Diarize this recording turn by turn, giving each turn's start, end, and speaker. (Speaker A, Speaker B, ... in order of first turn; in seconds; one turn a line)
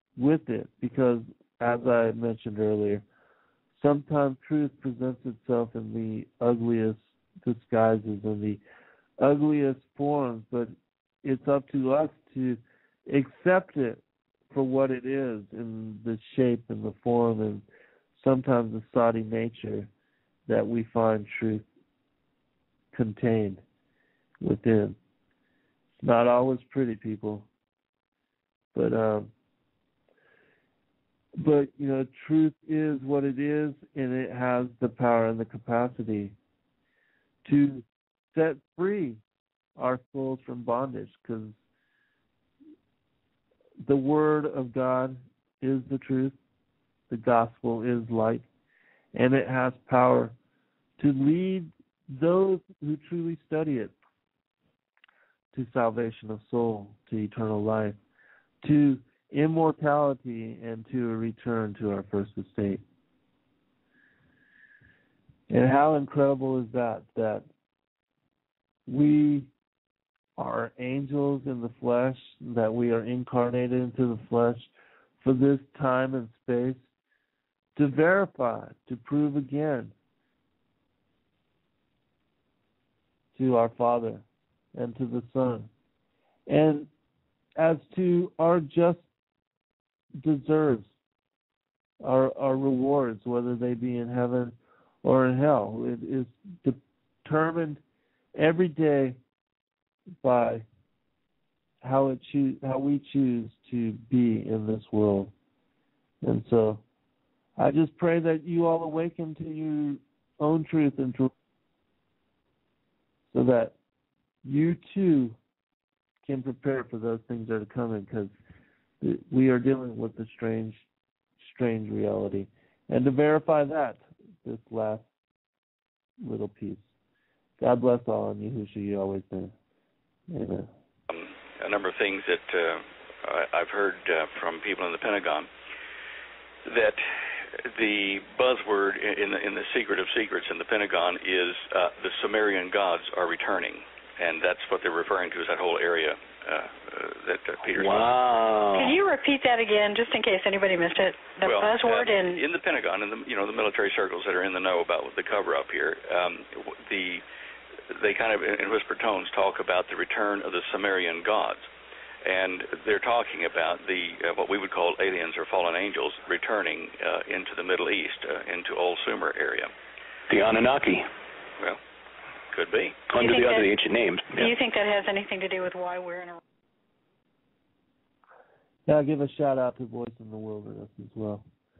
Speaker A: 0.2-3.0
Speaker A: 3.7-8.6
Speaker A: 9.2-14.0
Speaker A: 14.5-17.6
Speaker A: 18.1-19.9
Speaker A: 20.5-21.6
Speaker A: 22.9-23.6
Speaker A: 24.4-24.9
Speaker A: 26.0-27.5
Speaker A: 28.7-29.3
Speaker A: 31.4-36.3
Speaker A: 37.4-39.2
Speaker A: 39.8-41.6
Speaker A: 43.8-46.3
Speaker A: 47.1-48.4
Speaker A: 49.1-50.3
Speaker A: 51.0-53.9
Speaker A: 55.5-58.0
Speaker A: 58.6-62.8
Speaker A: 65.5-67.4
Speaker A: 68.9-69.5
Speaker A: 70.4-76.8
Speaker A: 77.8-79.9
Speaker A: 83.3-84.2
Speaker A: 84.7-85.7
Speaker A: 86.5-86.9
Speaker A: 87.6-89.0
Speaker A: 90.2-90.9
Speaker A: 92.0-97.8
Speaker A: 98.3-99.2
Speaker A: 100.2-100.6
Speaker A: 101.8-105.3
Speaker A: 106.2-106.8
Speaker A: 107.6-111.3
Speaker A: 113.3-113.7
Speaker A: 114.4-115.3
Speaker A: 116.2-118.3
Speaker A: 119.0-120.8
Speaker A: 121.4-125.1
Speaker A: 126.2-126.8
Speaker A: 127.6-129.5
Speaker A: 130.3-130.7
Speaker B: 131.1-135.5
Speaker B: 136.7-148.1
Speaker C: 147.7-149.0
Speaker D: 148.7-152.4
Speaker B: 151.4-157.2
Speaker B: 157.9-161.7
Speaker B: 162.2-169.7
Speaker C: 170.3-171.1
Speaker B: 172.5-173.0
Speaker C: 173.1-174.5
Speaker D: 173.2-173.7
Speaker D: 174.3-176.4
Speaker A: 178.9-181.4